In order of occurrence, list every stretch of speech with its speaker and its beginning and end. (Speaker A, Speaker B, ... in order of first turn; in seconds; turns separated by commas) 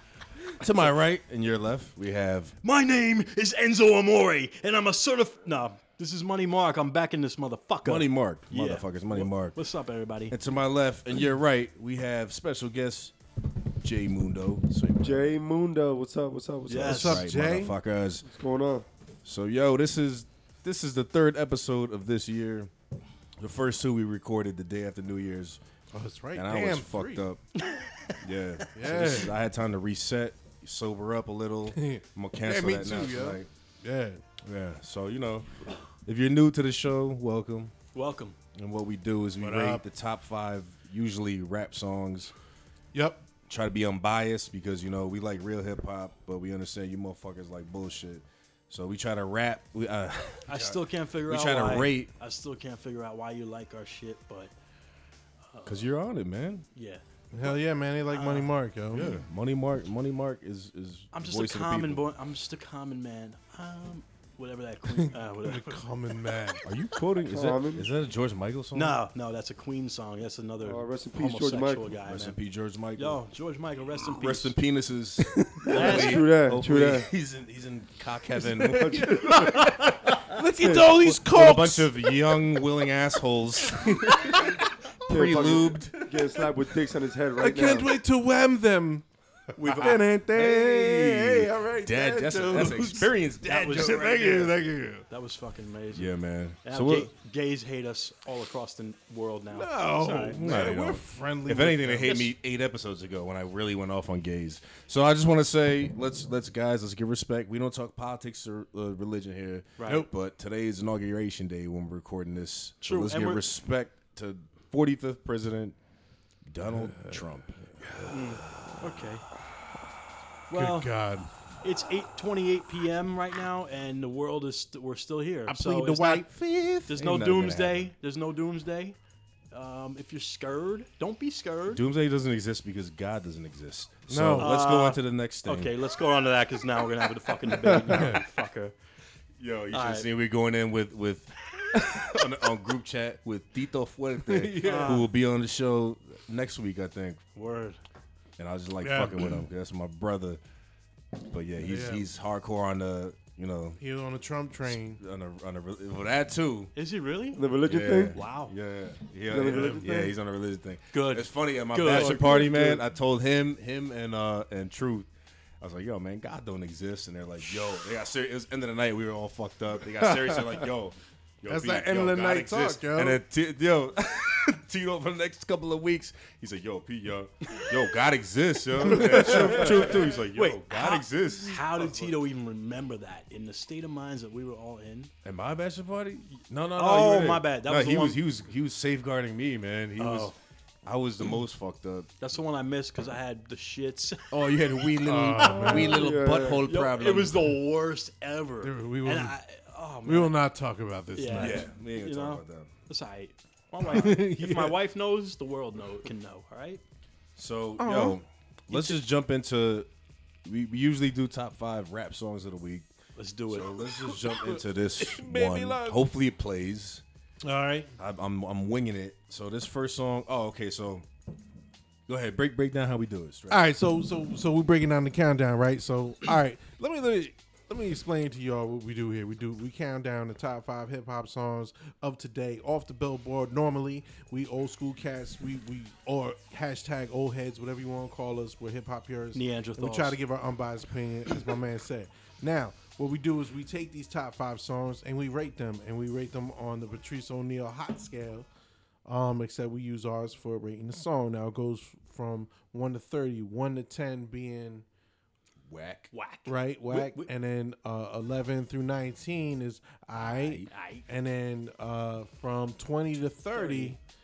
Speaker A: 0.6-2.5, Speaker B: 2.6-10.3, Speaker A: 7.8-9.6, Speaker A: 10.3-13.1, Speaker A: 13.8-15.3, Speaker C: 15.0-17.1, Speaker B: 16.7-17.2, Speaker D: 16.8-17.8, Speaker A: 16.8-18.2, Speaker C: 18.2-18.9, Speaker A: 19.2-22.7, Speaker A: 23.4-25.6, Speaker D: 25.9-27.2, Speaker A: 26.3-27.4, Speaker B: 27.6-28.2, Speaker A: 28.2-33.5, Speaker D: 28.7-29.4, Speaker D: 31.7-34.2, Speaker A: 34.4-35.5, Speaker A: 36.0-37.7, Speaker B: 37.9-38.4, Speaker A: 38.5-42.3, Speaker D: 39.4-39.8, Speaker D: 42.9-43.2, Speaker A: 43.5-52.1, Speaker B: 50.4-54.5, Speaker B: 55.5-55.9, Speaker A: 55.6-56.6, Speaker B: 56.7-57.0, Speaker D: 57.3-59.1, Speaker B: 58.1-58.5, Speaker A: 58.9-62.0, Speaker B: 61.1-65.8, Speaker D: 65.0-66.6, Speaker A: 66.6-69.0, Speaker C: 67.3-67.9, Speaker B: 68.7-72.4, Speaker C: 70.6-71.9, Speaker A: 72.0-73.2, Speaker B: 73.0-74.5, Speaker A: 74.0-79.6, Speaker C: 75.6-77.1, Speaker B: 75.7-76.3, Speaker D: 78.3-82.4, Speaker C: 78.8-79.7, Speaker C: 80.6-81.0, Speaker A: 80.7-84.5, Speaker D: 83.7-86.4, Speaker A: 85.0-86.0, Speaker C: 85.1-88.0, Speaker D: 87.4-89.0, Speaker A: 89.6-94.1, Speaker D: 89.6-95.0, Speaker B: 89.6-90.0, Speaker B: 93.4-96.1, Speaker A: 95.9-97.1, Speaker B: 96.6-100.6, Speaker D: 99.5-102.3, Speaker A: 100.3-115.7, Speaker B: 109.8-110.1, Speaker B: 112.8-113.4, Speaker A: 116.5-118.1, Speaker D: 116.7-117.2, Speaker D: 117.8-118.1, Speaker B: 118.1-119.2, Speaker B: 120.5-120.9, Speaker D: 120.5-121.3, Speaker B: 121.6-126.3, Speaker D: 125.5-126.9, Speaker B: 126.9-129.0, Speaker A: 126.9-127.9, Speaker B: 129.5-131.8, Speaker A: 131.7-135.7, Speaker D: 134.1-134.5, Speaker B: 134.4-138.8, Speaker D: 137.8-138.2, Speaker A: 139.4-147.2, Speaker B: 139.7-140.1, Speaker D: 144.2-145.1, Speaker B: 144.6-145.1, Speaker B: 147.3-147.8, Speaker A: 148.4-150.4, Speaker D: 148.8-149.4, Speaker A: 151.2-153.8, Speaker D: 151.6-152.1, Speaker D: 153.8-155.0, Speaker A: 154.6-156.7, Speaker B: 156.7-157.4, Speaker C: 157.3-158.2, Speaker A: 157.6-165.1, Speaker B: 158.1-158.5, Speaker C: 159.3-160.2, Speaker B: 160.9-162.5, Speaker C: 161.9-162.8, Speaker A: 165.6-181.9, Speaker D: 169.9-170.7, Speaker D: 171.5-173.2, Speaker D: 178.8-180.0, Speaker B: 179.0-185.1, Speaker A: 185.2-192.1, Speaker B: 186.7-188.2, Speaker B: 190.0-190.3, Speaker B: 192.2-194.3, Speaker A: 194.3-197.6, Speaker D: 195.0-196.0, Speaker B: 195.5-195.9, Speaker C: 195.6-196.6, Speaker B: 196.6-200.4, Speaker D: 198.6-199.3, Speaker D: 200.0-201.7, Speaker B: 201.1-206.8, Speaker A: 201.3-202.7, Speaker D: 203.8-204.8, Speaker A: 207.3-209.9, Speaker D: 207.8-208.2, Speaker B: 208.7-209.0, Speaker A: 210.4-212.9, Speaker B: 213.2-213.8, Speaker A: 213.5-217.0, Speaker D: 213.8-216.1, Speaker D: 217.4-217.9, Speaker A: 218.0-221.1, Speaker A: 222.1-223.7, Speaker D: 223.5-248.5, Speaker B: 239.3-240.2, Speaker D: 249.1-254.8, Speaker A: 255.7-256.1, Speaker B: 256.1-257.3, Speaker D: 256.4-264.0, Speaker A: 260.2-260.7, Speaker B: 260.7-261.1, Speaker B: 263.5-264.0